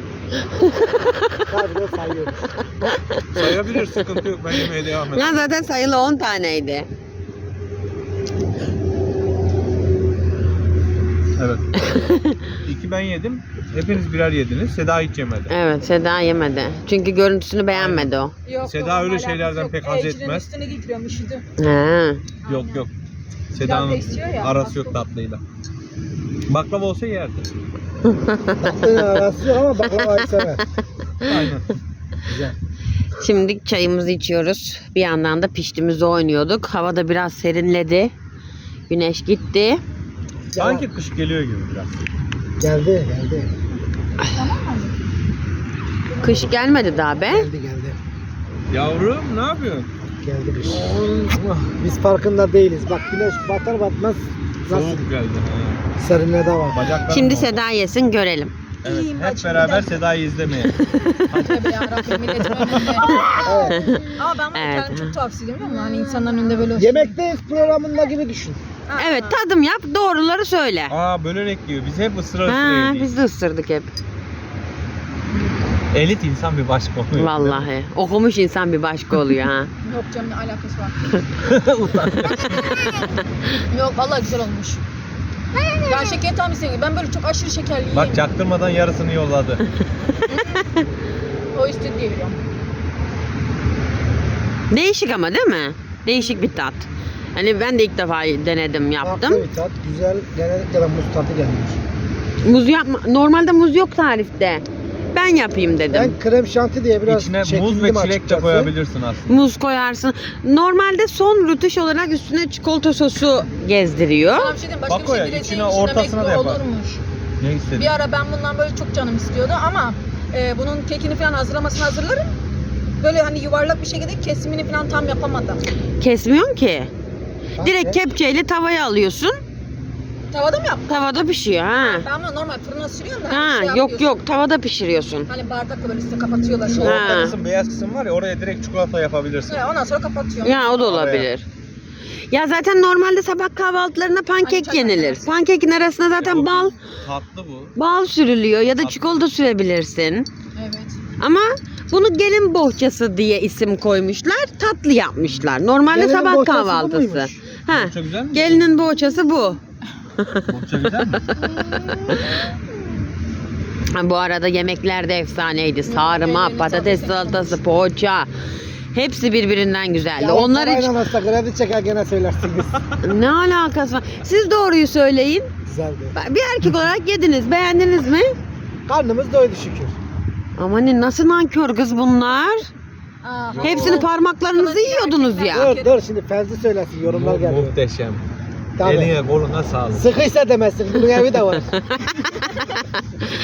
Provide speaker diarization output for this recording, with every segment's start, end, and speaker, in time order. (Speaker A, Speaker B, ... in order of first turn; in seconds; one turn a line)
Speaker A: 0.3-1.4
Speaker B: 1.5-2.4
Speaker A: 2.6-3.5
Speaker C: 3.3-5.5
Speaker A: 5.1-6.9
Speaker C: 11.4-11.6
Speaker A: 11.8-12.4
Speaker C: 12.6-15.5
Speaker A: 15.5-18.3
Speaker C: 17.7-18.1
Speaker D: 18.4-21.4
Speaker C: 18.6-20.5
Speaker A: 21.6-22.2
Speaker D: 22.4-22.8
Speaker C: 22.5-22.9
Speaker C: 23.5-25.4
Speaker D: 23.6-25.0
Speaker C: 26.5-27.5
Speaker A: 28.0-29.2
Speaker B: 28.6-30.6
Speaker A: 30.0-30.5
Speaker A: 31.2-31.5
Speaker C: 31.2-31.6
Speaker B: 32.2-32.5
Speaker A: 33.2-38.1
Speaker A: 38.9-39.8
Speaker B: 40.5-40.8
Speaker C: 40.6-42.0
Speaker B: 42.6-43.5
Speaker D: 44.3-45.0
Speaker A: 46.2-47.5
Speaker C: 46.2-46.5
Speaker B: 47.2-48.0
Speaker C: 48.7-49.9
Speaker B: 50.2-50.9
Speaker A: 50.7-51.4
Speaker B: 51.6-55.1
Speaker C: 54.7-55.8
Speaker B: 56.0-56.8
Speaker C: 56.7-57.5
Speaker A: 57.1-58.5
Speaker C: 58.8-63.2
Speaker D: 58.8-60.0
Speaker A: 60.7-61.3
Speaker D: 61.1-67.2
Speaker A: 63.1-65.2
Speaker B: 63.4-63.9
Speaker B: 66.8-68.6
Speaker D: 68.9-69.4
Speaker A: 69.0-71.0
Speaker C: 70.9-73.1
Speaker A: 72.5-73.9
Speaker C: 75.9-77.6
Speaker A: 77.1-79.7
Speaker D: 79.8-81.0
Speaker C: 81.4-82.8
Speaker D: 83.6-84.8
Speaker D: 85.7-88.2
Speaker C: 87.9-89.6
Speaker A: 90.1-90.7
Speaker D: 91.5-92.4
Speaker A: 94.7-99.5
Speaker B: 99.0-101.8
Speaker A: 102.4-106.2
Speaker B: 105.9-108.7
Speaker C: 107.0-109.3
Speaker A: 109.3-114.5
Speaker D: 114.3-117.0
Speaker C: 114.9-116.6
Speaker C: 117.4-117.9
Speaker D: 117.8-122.3
Speaker D: 123.0-125.6
Speaker A: 126.0-126.9
Speaker B: 127.6-128.0
Speaker A: 127.6-129.4
Speaker D: 130.3-130.9
Speaker A: 130.9-132.1
Speaker D: 131.7-134.1
Speaker A: 133.3-135.3
Speaker D: 135.3-137.1
Speaker C: 136.7-139.6
Speaker A: 136.8-137.4
Speaker D: 139.5-140.7
Speaker A: 140.4-141.5
Speaker C: 140.8-141.3
Speaker A: 142.3-146.8
Speaker D: 144.4-145.2
Speaker C: 146.2-147.7
Speaker A: 147.8-150.3
Speaker C: 148.8-149.2
Speaker D: 150.6-151.0
Speaker A: 151.2-159.6
Speaker C: 155.2-155.5
Speaker B: 155.9-157.4
Speaker C: 157.7-158.7
Speaker A: 160.2-160.5
Speaker C: 160.5-161.2
Speaker A: 161.1-162.3
Speaker A: 163.9-168.3
Speaker D: 165.8-167.6
Speaker A: 168.9-170.9
Speaker B: 170.2-172.8
Speaker A: 173.0-175.5
Speaker B: 175.6-176.1
Speaker A: 176.1-178.3
Speaker B: 178.8-180.0
Speaker A: 180.6-182.7
Speaker D: 183.2-185.9
Speaker C: 183.5-184.0
Speaker A: 183.6-185.7
Speaker B: 185.5-187.8
Speaker C: 187.0-188.2
Speaker B: 188.8-189.2
Speaker C: 188.8-190.1
Speaker B: 189.9-191.8
Speaker A: 191.7-193.0